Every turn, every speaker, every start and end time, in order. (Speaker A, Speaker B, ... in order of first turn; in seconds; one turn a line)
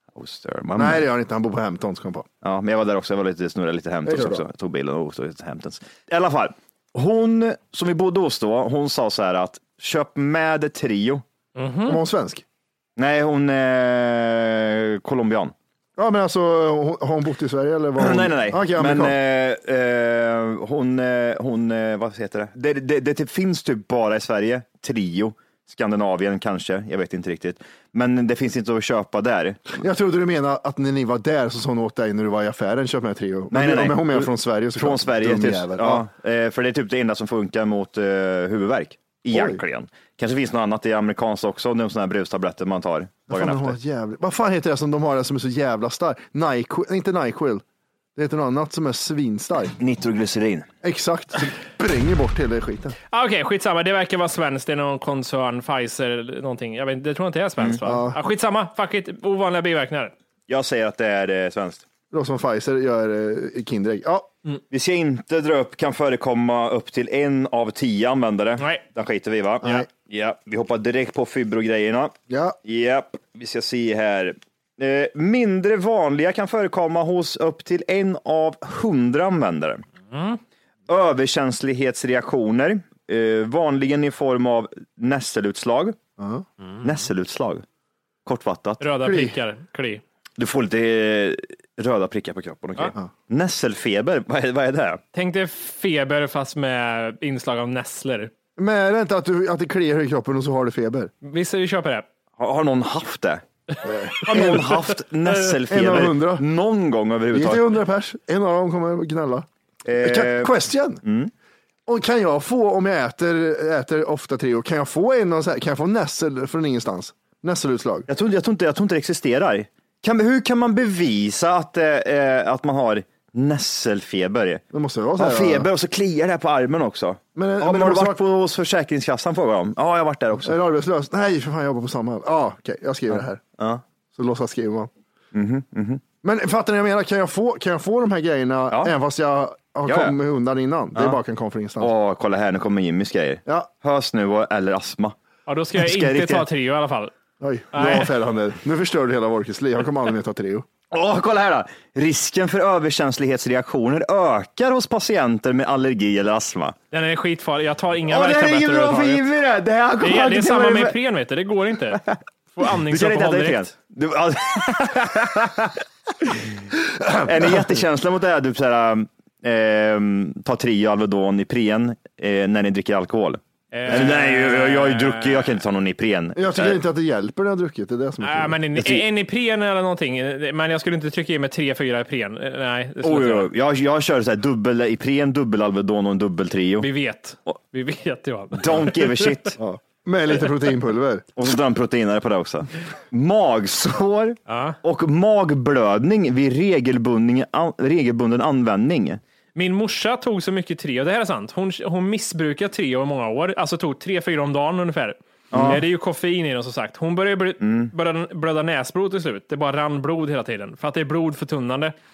Speaker A: 0.1-1.1
Speaker B: 0.8-2.3
Speaker A: 2.4-11.2
Speaker B: 4.1-4.4
Speaker C: 11.6-12.0
Speaker B: 11.9-12.4
Speaker A: 13.0-15.5
Speaker B: 16.0-19.1
Speaker A: 18.0-29.6
Speaker B: 29.8-36.1
Speaker A: 33.5-43.8
Speaker B: 39.3-39.6
Speaker B: 43.3-47.6
Speaker B: 48.2-49.7
Speaker A: 49.8-50.7
Speaker B: 50.8-53.0
Speaker C: 53.1-60.1
Speaker B: 57.8-58.2
Speaker A: 60.5-61.8
Speaker B: 62.1-64.3
Speaker A: 64.7-79.8
Speaker C: 68.6-68.8
Speaker B: 72.3-72.6
Speaker C: 80.1-80.4
Speaker A: 80.9-86.0
Speaker B: 86.2-86.5
Speaker A: 86.8-87.6
Speaker A: 88.3-88.8
Speaker C: 88.8-90.0
Speaker B: 89.0-89.4
Speaker A: 90.4-95.0
Speaker C: 95.1-98.3
Speaker B: 98.6-101.1
Speaker C: 101.2-102.1
Speaker A: 102.4-103.4
Speaker B: 103.8-104.7
Speaker C: 104.2-105.5
Speaker A: 104.3-107.7
Speaker B: 105.7-106.4
Speaker B: 107.3-109.5
Speaker A: 109.9-111.3
Speaker B: 110.0-111.0
Speaker B: 111.9-118.1
Speaker A: 118.1-124.6
Speaker B: 124.7-125.7
Speaker A: 125.2-130.6
Speaker B: 127.4-128.2
Speaker B: 130.4-133.4
Speaker A: 133.1-133.8
Speaker B: 134.2-134.9
Speaker A: 135.3-136.0
Speaker B: 136.2-141.9
Speaker A: 139.9-140.2
Speaker A: 141.8-145.2
Speaker C: 145.5-147.1
Speaker A: 145.8-146.5
Speaker B: 147.4-150.7
Speaker C: 147.7-148.1
Speaker A: 150.9-156.8
Speaker C: 156.9-159.3
Speaker A: 158.1-160.9
Speaker C: 160.0-162.0
Speaker A: 161.9-162.2
Speaker C: 162.6-163.7
Speaker A: 162.9-166.6
Speaker B: 167.0-167.3
Speaker A: 167.2-176.8
Speaker C: 173.7-175.6
Speaker B: 176.3-178.6
Speaker C: 178.2-183.5
Speaker A: 178.8-179.0
Speaker A: 183.0-186.9
Speaker C: 186.8-189.6
Speaker A: 188.6-189.6
Speaker B: 189.6-191.3
Speaker A: 191.4-199.2
Speaker C: 194.5-194.8
Speaker C: 199.6-212.0
Speaker A: 205.5-205.8
Speaker B: 205.5-205.8
Speaker A: 207.6-207.9